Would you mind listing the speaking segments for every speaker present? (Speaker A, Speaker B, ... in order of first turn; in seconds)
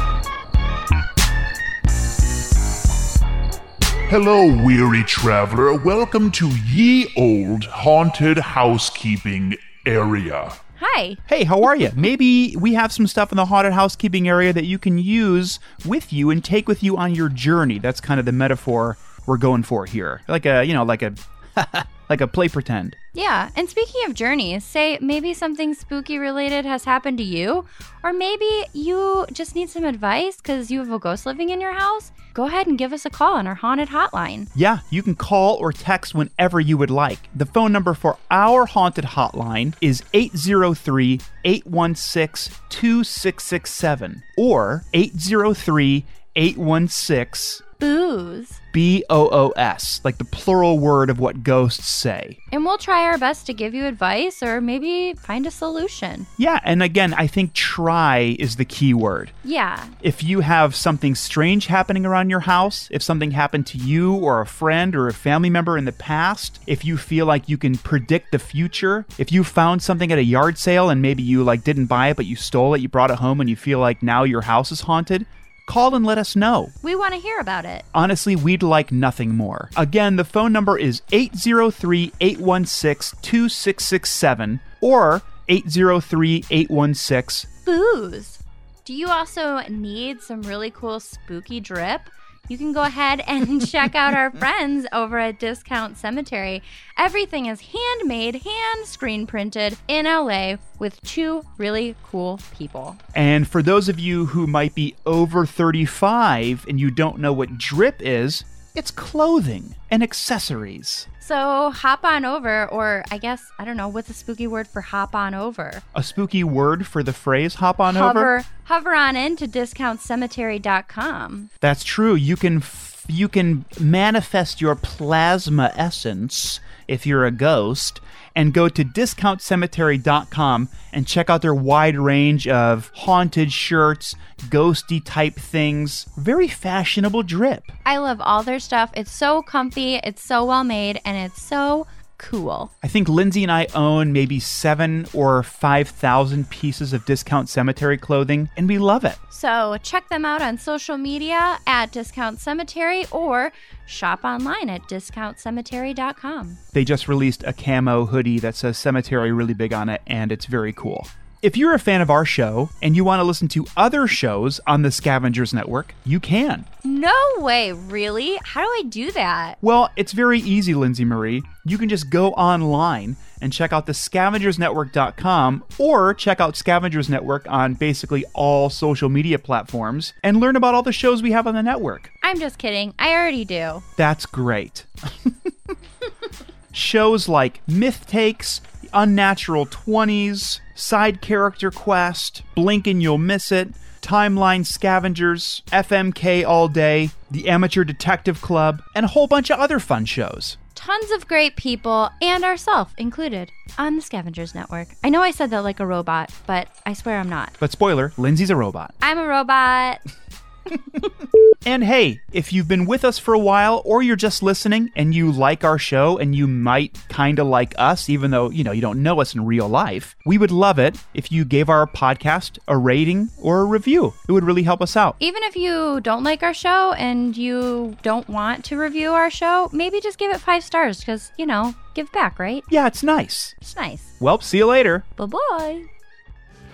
Speaker A: 4.1-10.6
Speaker B: 10.8-11.2, 23.1-34.5, 47.8-48.6, 52.5-56.3, 59.4-59.9, 76.8-77.8, 87.7-103.0, 111.2-115.8, 117.9-121.5, 137.8-142.7, 149.3-156.6, 166.8-169.6, 182.2-183.8, 200.7-207.5, 209.0-210.0, 225.2-232.7, 233.6-234.1, 235.2-235.9
Speaker C: 11.3-23.0, 34.5-47.6, 48.7-52.4, 56.4-59.3, 60.0-76.7, 77.9-87.5, 103.1-111.1, 115.9-118.3, 121.6-137.7, 142.8-149.2, 156.7-166.7, 169.6-182.1, 184.0-185.5, 186.7-200.6, 207.6-208.9, 211.6-225.2, 232.7-233.6, 234.2-235.1